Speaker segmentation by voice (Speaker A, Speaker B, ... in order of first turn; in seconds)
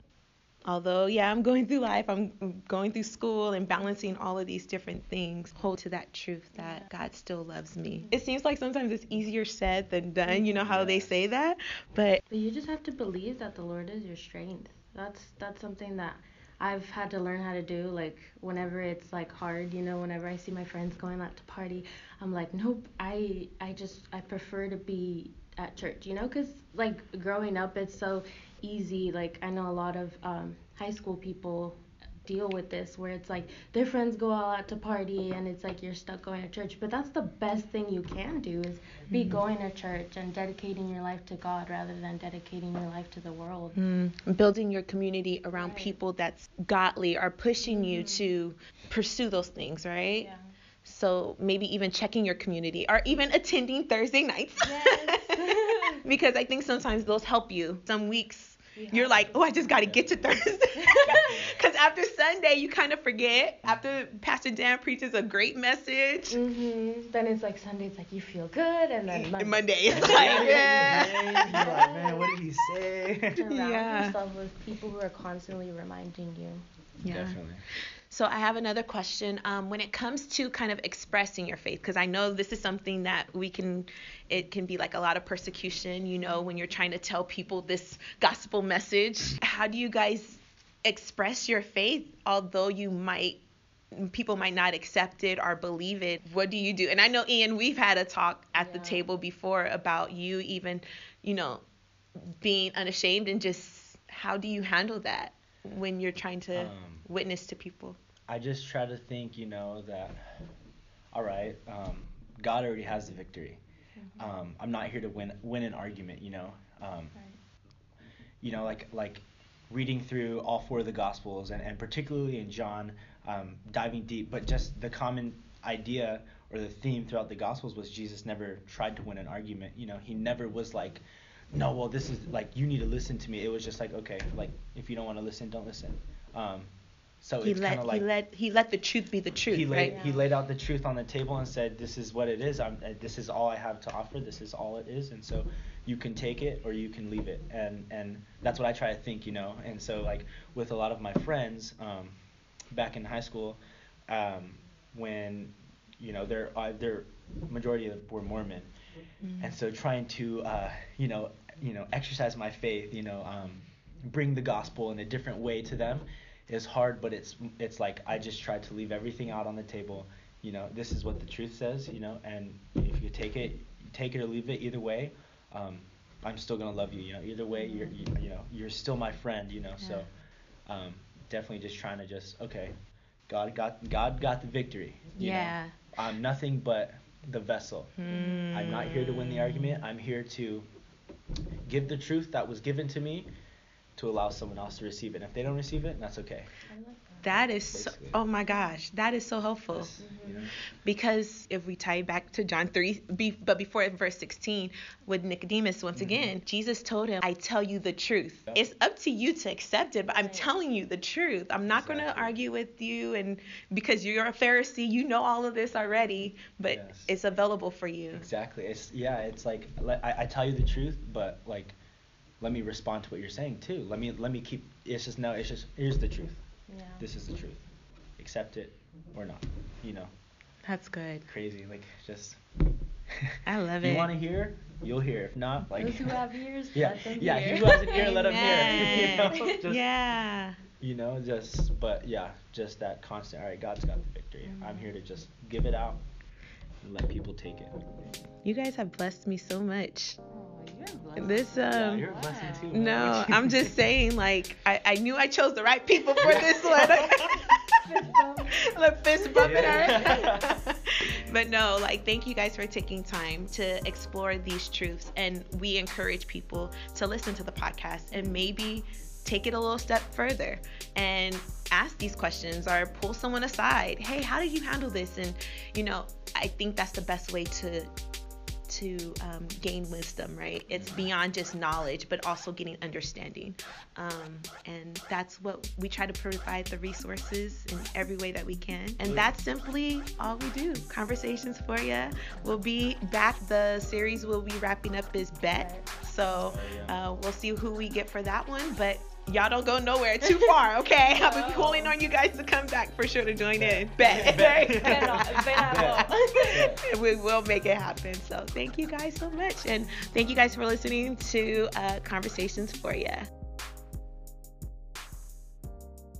Speaker A: 0.7-12.2, 39.1-39.4, 43.7-50.3, 50.8-66.4, 69.1-71.8, 73.4-74.2, 77.0-77.4, 78.1-93.4, 93.9-101.6, 102.4-108.0, 137.4-140.0, 159.2-159.6, 179.8-180.0, 185.2-185.8, 188.0-189.8, 197.2-199.9, 200.8-218.3, 230.6-231.3, 233.4-234.1, 237.5-240.6, 248.4-250.2, 251.2-252.1, 252.7-257.6, 258.7-277.9, 278.7-313.3
Speaker B: 6.5-6.9, 7.9-8.2, 10.2-10.6, 12.3-43.8, 45.5-46.0, 47.6-48.3, 50.2-50.5, 54.6-56.0, 58.7-59.8, 60.7-61.3, 66.3-72.3, 73.3-76.6, 86.2-86.5, 98.5-99.1, 114.0-114.3, 139.7-140.3, 177.5-177.9, 188.1-188.5, 196.7-197.4, 198.4-198.8, 200.0-200.5, 210.1-210.6, 226.7-227.1, 235.7-239.6, 244.4-244.9, 250.3-252.8, 257.8-260.4, 268.1-268.5, 292.3-292.6, 295.4-295.9, 300.4-302.0, 304.0-306.7
Speaker C: 10.6-11.2, 59.8-60.4, 61.0-61.6, 69.9-73.4, 77.1-77.6, 106.5-107.1, 108.3-110.2, 111.1-113.6, 114.2-117.1, 118.4-136.7, 137.2-138.1, 139.5-152.2, 152.7-158.7, 159.4-180.1, 180.7-182.8, 183.3-187.9, 188.5-190.7, 191.7-193.3, 194.0-196.5, 197.3-198.2, 199.7-200.5, 205.9-206.3, 211.7-212.4, 216.7-217.1, 218.1-221.8, 222.4-226.4, 227.0-227.6, 228.2-230.1, 231.2-232.4, 233.2-236.2, 236.7-239.9, 240.8-246.0, 246.8-247.7, 251.7-253.7, 256.2-257.2, 259.4-260.4, 280.7-281.1, 289.0-289.3, 296.5-296.9, 303.5-306.8